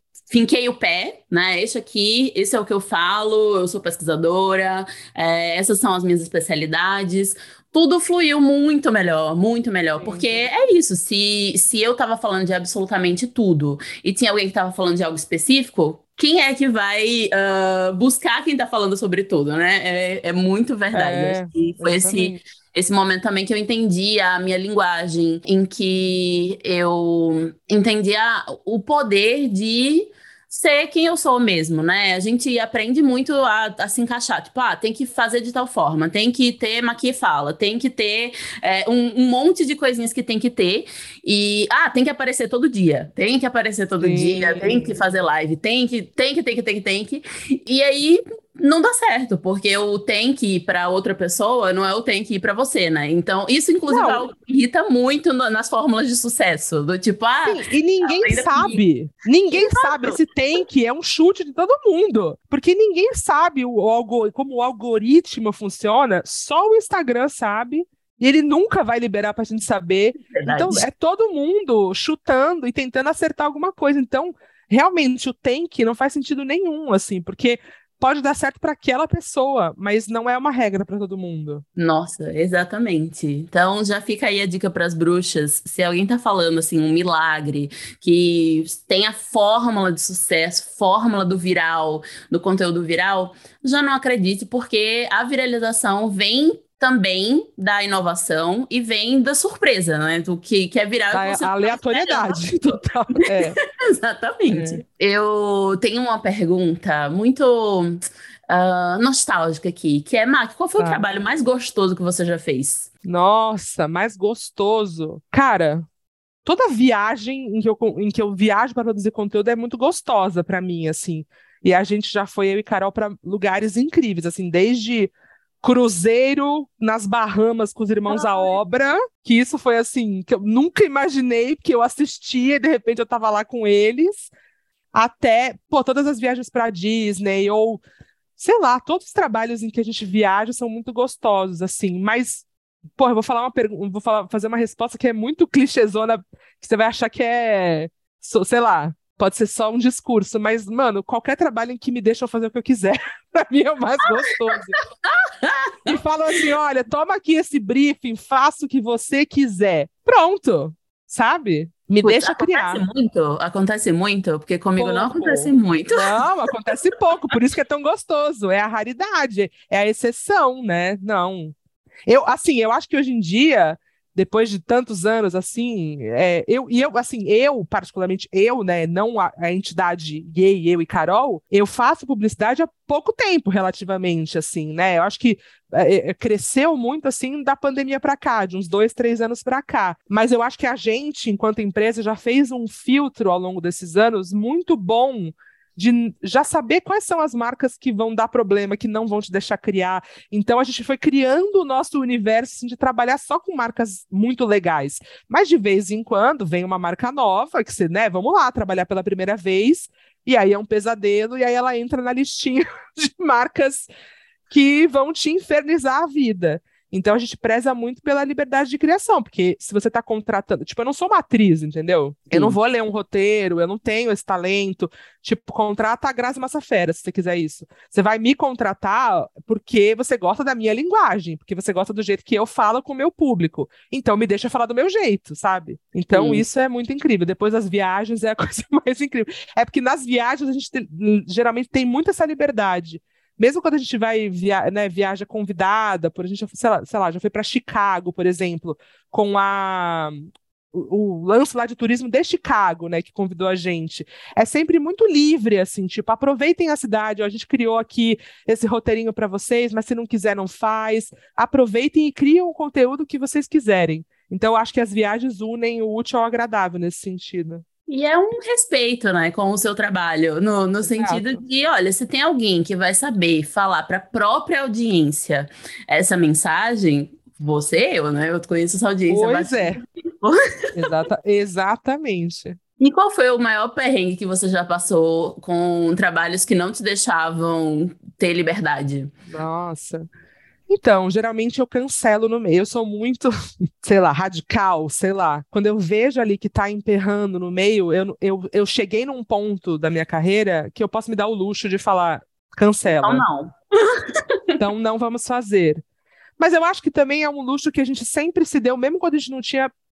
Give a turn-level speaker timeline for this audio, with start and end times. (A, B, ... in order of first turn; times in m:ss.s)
0:00.3-0:58.8 A
0:10.0-0:10.5 B
0:20.9-0:22.4 B
0:44.0-0:45.0 B
0:53.9-0:54.3 B
0:57.4-1:21.6 B
0:59.5-1:00.2 A
1:10.3-1:10.9 A
1:21.8-1:42.6 A
1:41.1-1:43.6 B
1:43.3-1:52.9 A
1:44.5-1:44.8 B
1:50.8-1:51.0 B
1:53.0-1:55.8 B
1:56.4-2:14.3 B
2:08.1-2:08.6 A
2:14.9-2:17.8 B
2:18.4-2:34.8 B
2:34.5-2:36.4 A
2:35.8-2:42.8 B
2:42.0-2:46.3 A
2:44.8-2:51.5 B
2:52.1-3:33.9 B
3:34.5-4:27.6 B
3:42.3-3:42.6 A
3:56.1-3:56.4 A
4:27.9-4:40.4 A
4:30.8-4:31.4 B
4:39.1-4:39.8 B
4:40.8-4:42.6 B
4:42.8-4:49.1 A
4:49.3-4:50.1 B
4:50.7-5:03.2 B
5:02.9-5:04.6 A
5:04.6-5:05.8 B
5:06.4-5:09.7 B